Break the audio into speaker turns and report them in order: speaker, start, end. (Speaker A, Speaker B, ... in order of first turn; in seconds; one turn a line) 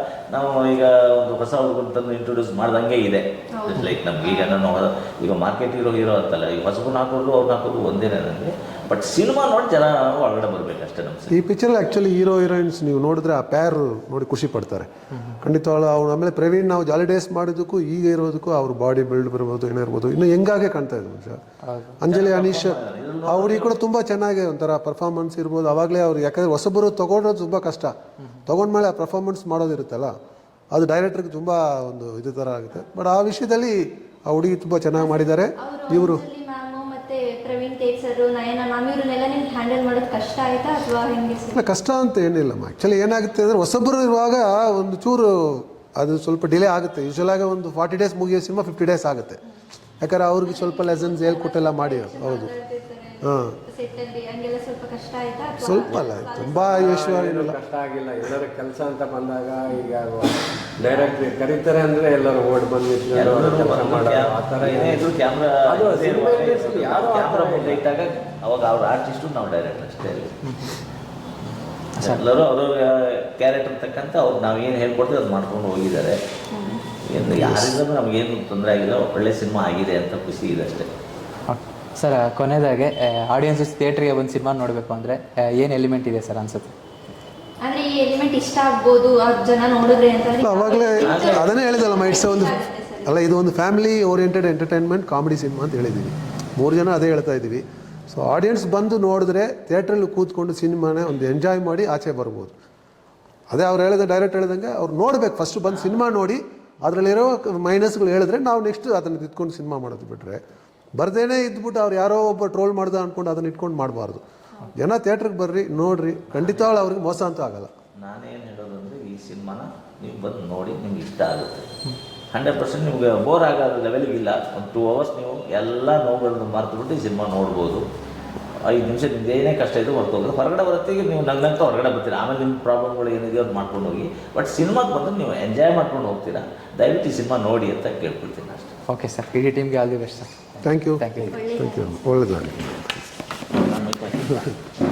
Speaker A: 0.3-11.3
Speaker B: 3.5-4.5
Speaker C: 11.3-14.9
Speaker C: 15.4-21.4
Speaker D: 21.7-21.9
Speaker C: 22.0-27.9
Speaker A: 22.1-23.8
Speaker C: 28.5-30.1
Speaker C: 30.7-36.2
Speaker B: 34.9-41.7
Speaker C: 41.5-49.4
Speaker C: 50.0-52.5
Speaker B: 50.4-57.0
Speaker C: 53.2-53.5
Speaker C: 55.6-57.6
Speaker E: 56.8-65.1
Speaker A: 63.1-70.3
Speaker E: 65.7-67.8
Speaker D: 72.0-72.2
Speaker A: 72.0-76.2
Speaker B: 76.5-76.8
Speaker A: 77.1-80.9
Speaker D: 77.2-77.6
Speaker D: 81.5-86.7
Speaker B: 87.6-93.1
Speaker C: 90.4-102.5
Speaker A: 91.0-91.5
Speaker C: 103.5-110.4
Speaker C: 111.0-114.2
Speaker C: 114.8-117.7
Speaker A: 116.3-116.8
Speaker A: 118.0-121.7
Speaker A: 122.3-127.8
Speaker A: 128.7-138.7
Speaker D: 138.9-141.3
Speaker C: 140.6-143.0
Speaker B: 141.3-142.0
Speaker A: 143.6-144.5